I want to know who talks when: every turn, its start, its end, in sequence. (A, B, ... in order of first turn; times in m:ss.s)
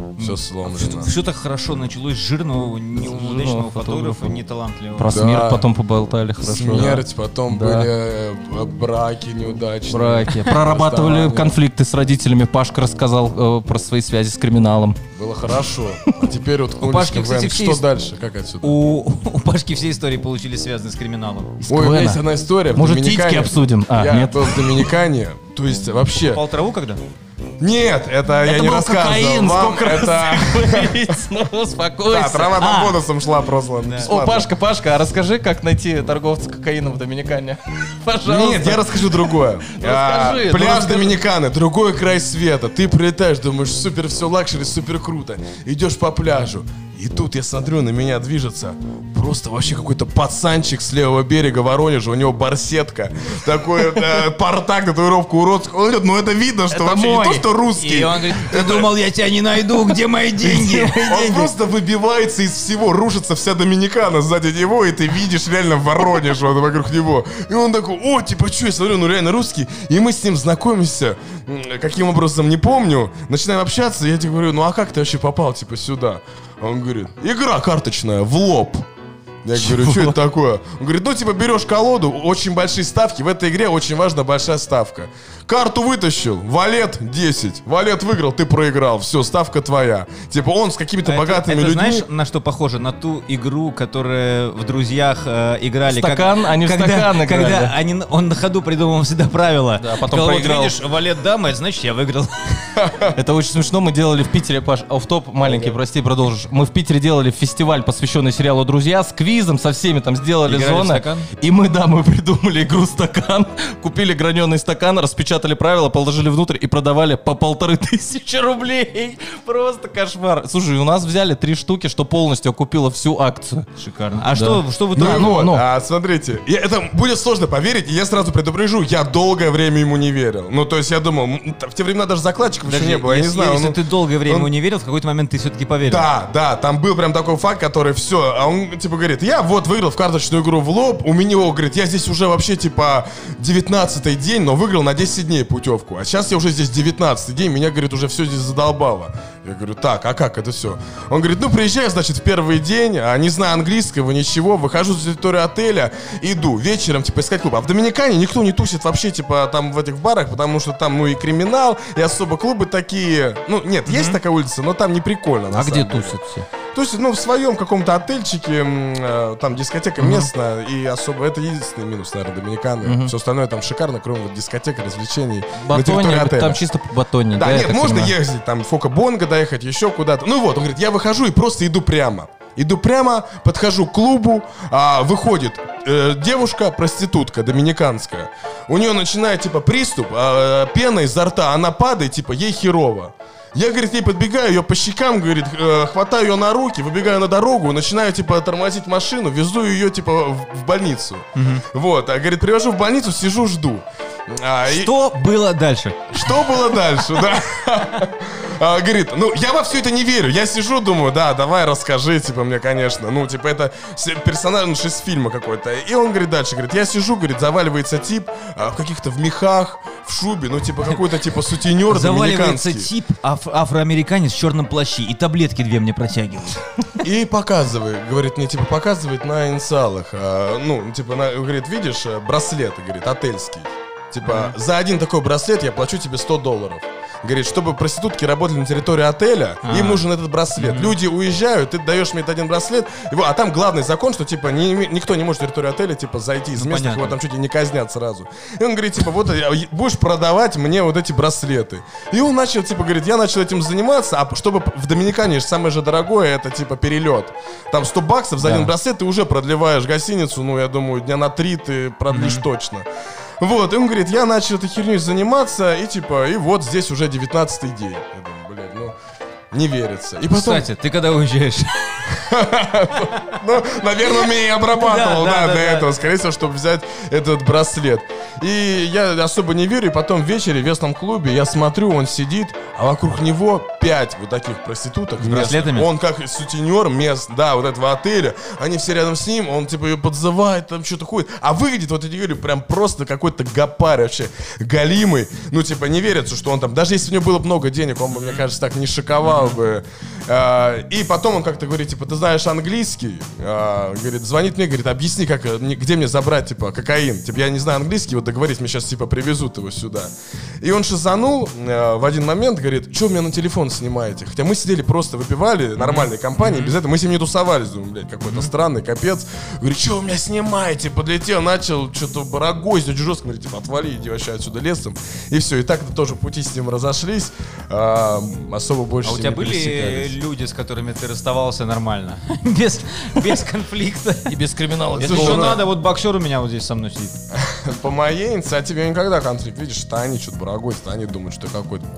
0:00.2-0:05.2 A
0:00.2-0:01.1 B
0:02.9-0:04.4 C
0:05.0-0:07.9 C
0:05.1-0:05.6 B
0:06.4-0:11.6 B
0:09.9-0:15.0 C
0:15.2-0:18.8 B
0:16.8-0:17.8 A
0:18.6-0:21.6 A
0:21.6-0:22.2 C
0:21.7-0:26.4 B
0:22.7-0:24.9 C
0:26.3-0:27.0 A
0:27.6-0:31.1 B
0:28.4-0:32.6 C
0:32.1-0:34.5 B
0:32.6-0:33.0 A
0:33.8-0:34.1 A
0:34.1-0:41.2 C
0:38.2-0:58.9 B
0:56.7-0:57.5 C
0:57.8-1:01.0 A
1:00.4-1:01.5 C
1:00.9-1:18.8 B
1:19.4-1:32.1 B
1:19.6-1:20.2 C
1:31.0-1:42.8 A
1:35.8-1:37.8 C
1:39.8-1:40.8 C
1:42.8-1:43.1 B
1:43.1-2:03.7 C
1:50.5-1:51.3 A
2:03.8-2:05.4 A
2:04.3-2:05.6 C
2:05.0-2:14.5 B
2:12.6-2:16.1 A
2:15.9-2:46.2 B
2:43.9-2:44.2 A
2:45.5-2:46.5 C
2:46.7-2:56.6 B
2:50.0-2:50.3 C
2:52.8-2:53.1 C
2:55.6-2:58.2 C
2:57.4-3:24.9 B
3:21.4-3:21.6 A
3:24.6-3:26.3 A
3:26.1-3:42.9 B
3:41.9-3:46.6 A
3:47.0-4:22.8 B
3:54.2-3:54.5 A
3:59.6-4:00.0 A
4:00.6-4:01.0 A
4:06.6-4:07.2 A
4:18.4-4:18.7 A
4:22.1-4:22.4 A
4:23.4-4:28.9 B
4:29.5-4:30.6 B
4:30.3-4:32.2 A
4:32.1-5:30.1 B
4:32.9-4:33.4 A
4:34.0-4:35.9 A
4:45.2-4:45.9 A
4:58.2-4:58.4 A
4:59.2-4:59.6 A
5:15.8-5:16.7 A
5:18.2-5:18.5 A
5:29.0-5:34.4 A
5:34.3-5:35.6 C
5:34.9-5:35.6 B
5:35.0-5:37.1 A
5:37.3-5:41.9 B